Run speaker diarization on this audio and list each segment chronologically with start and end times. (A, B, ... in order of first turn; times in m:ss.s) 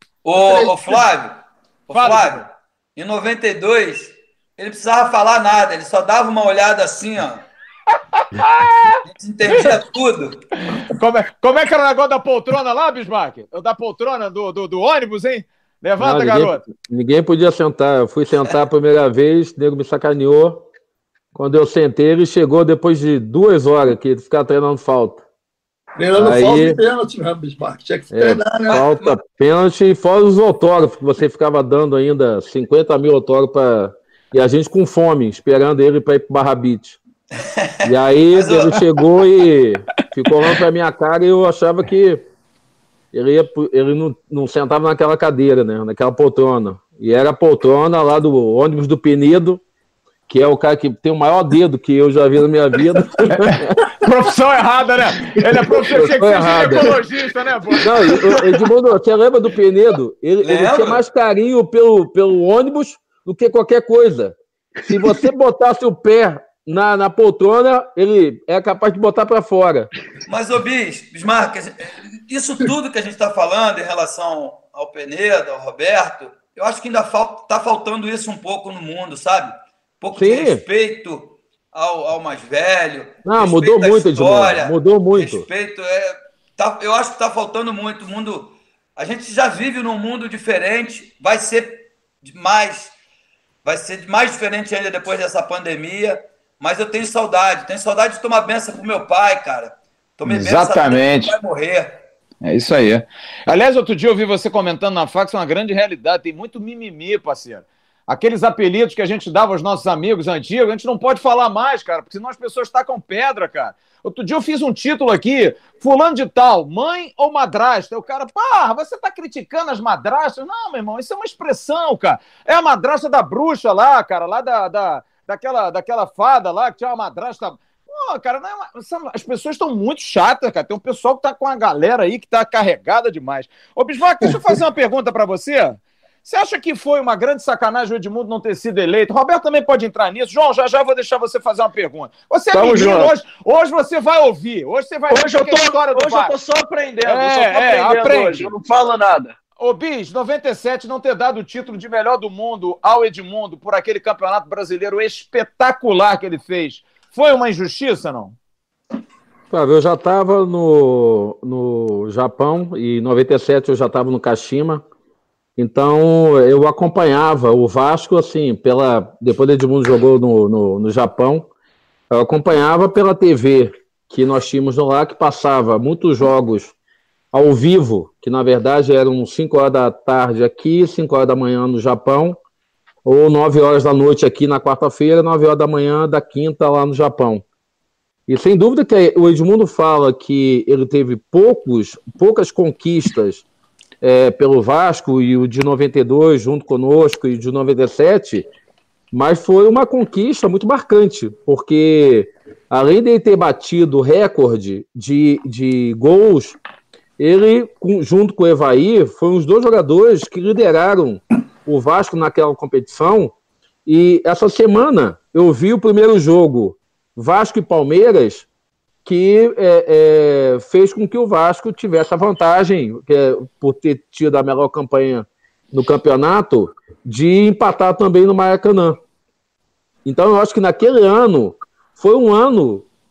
0:00.2-0:07.4 A
0:01.9-0:02.5 B
0:08.1-0:09.8 B
0:09.0-0:10.4 A
0:10.7-0:16.6 B
0:16.0-0:20.6 C
0:21.3-0:25.2 C
0:26.0-0:28.8 D
0:26.2-0:26.8 C
0:28.1-0:37.0 C
0:28.7-0:29.1 A
0:37.6-0:38.9 A
0:37.8-0:42.2 C
0:43.1-0:49.6 C
0:50.3-0:53.9 C
0:53.3-0:58.4 B
0:55.8-0:56.9 C
0:57.8-1:09.9 C
1:00.4-1:01.0 A
1:10.3-1:32.9 A
1:20.1-1:20.6 C
1:23.2-1:25.4 C
1:33.6-1:42.0 A
1:40.2-1:41.4 B
1:42.4-2:26.3 B
2:22.5-2:23.1 E
2:25.1-2:29.4 E
2:27.0-2:28.5 B
2:29.6-2:38.4 B
2:39.5-2:44.8 C
2:45.6-2:51.5 C
2:52.1-2:56.7 C
2:57.3-3:02.4 C
3:03.0-3:07.4 C
3:08.3-3:13.4 C
3:14.0-3:18.5 C
3:19.1-3:26.6 C
3:27.2-3:33.3 C
3:33.8-3:38.5 C
3:39.0-3:49.0 C
3:50.0-3:52.9 C